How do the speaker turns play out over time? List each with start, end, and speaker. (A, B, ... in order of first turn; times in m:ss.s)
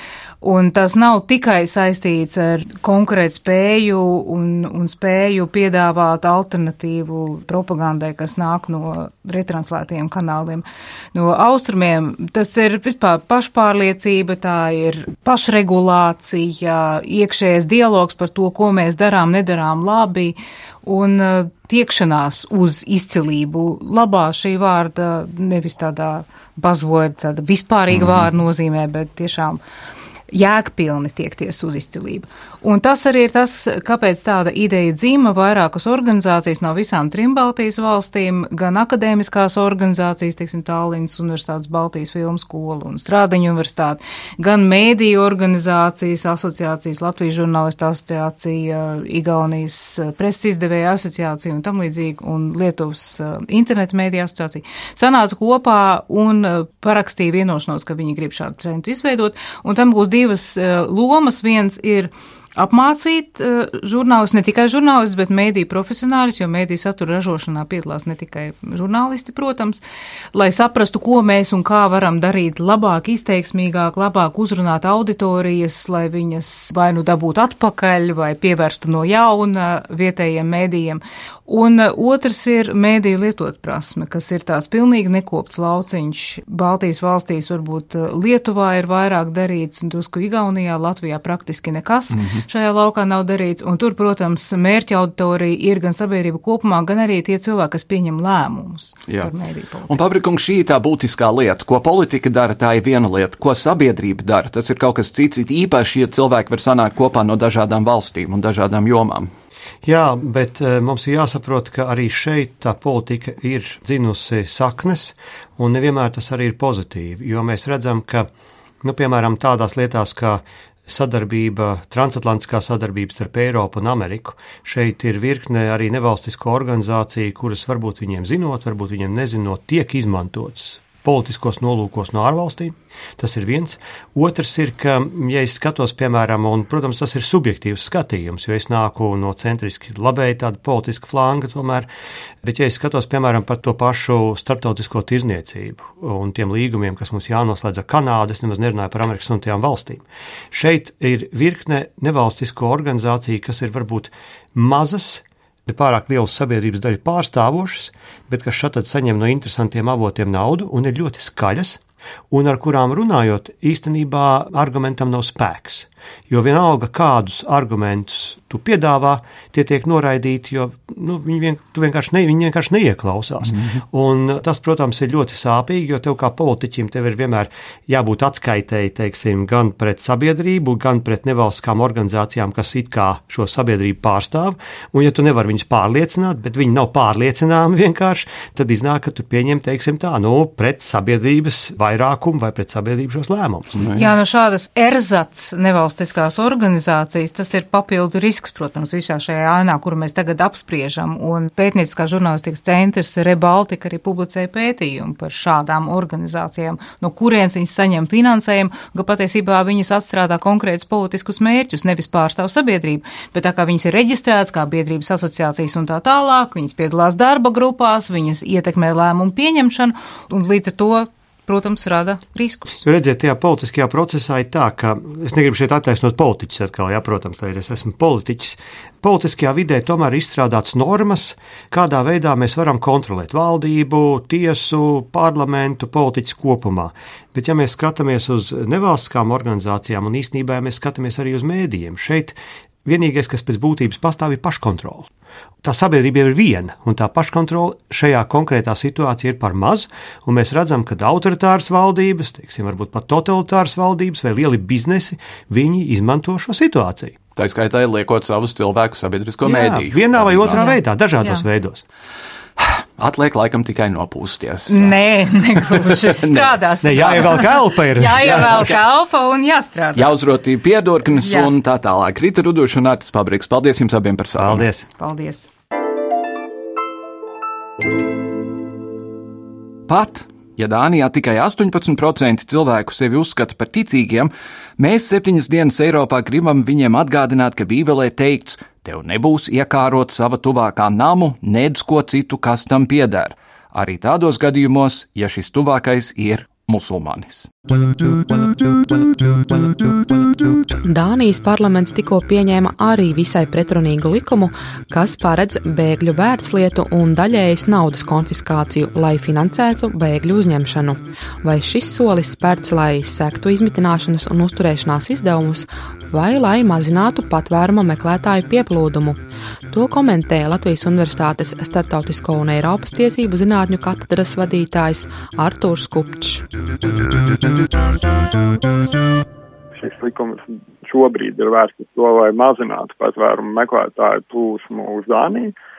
0:00.4-0:29.6 A
0:27.9-0:28.3 B
0:30.3-1:09.8 A
1:10.3-1:40.0 A
1:32.1-1:32.4 B
1:39.9-1:49.3 B
1:49.9-1:58.3 C
1:58.8-2:21.9 C
2:22.4-3:13.7 C
2:53.5-2:53.8 B
3:13.8-3:14.1 B
3:13.9-3:42.8 A
3:42.8-4:05.1 C
4:05.6-4:17.2 C
4:17.4-4:20.7 B
4:19.4-4:21.8 C
4:20.5-4:21.4 A
4:22.6-4:25.0 B
4:24.7-4:30.1 A
4:25.5-4:27.4 B
4:26.8-4:28.7 C
4:28.2-4:28.7 B
4:30.0-4:34.7 B
4:31.1-4:31.5 A
4:34.4-4:34.9 C
4:35.0-4:35.5 A
4:39.9-4:57.5 B
5:00.8-5:26.4 D
5:29.8-5:35.5 E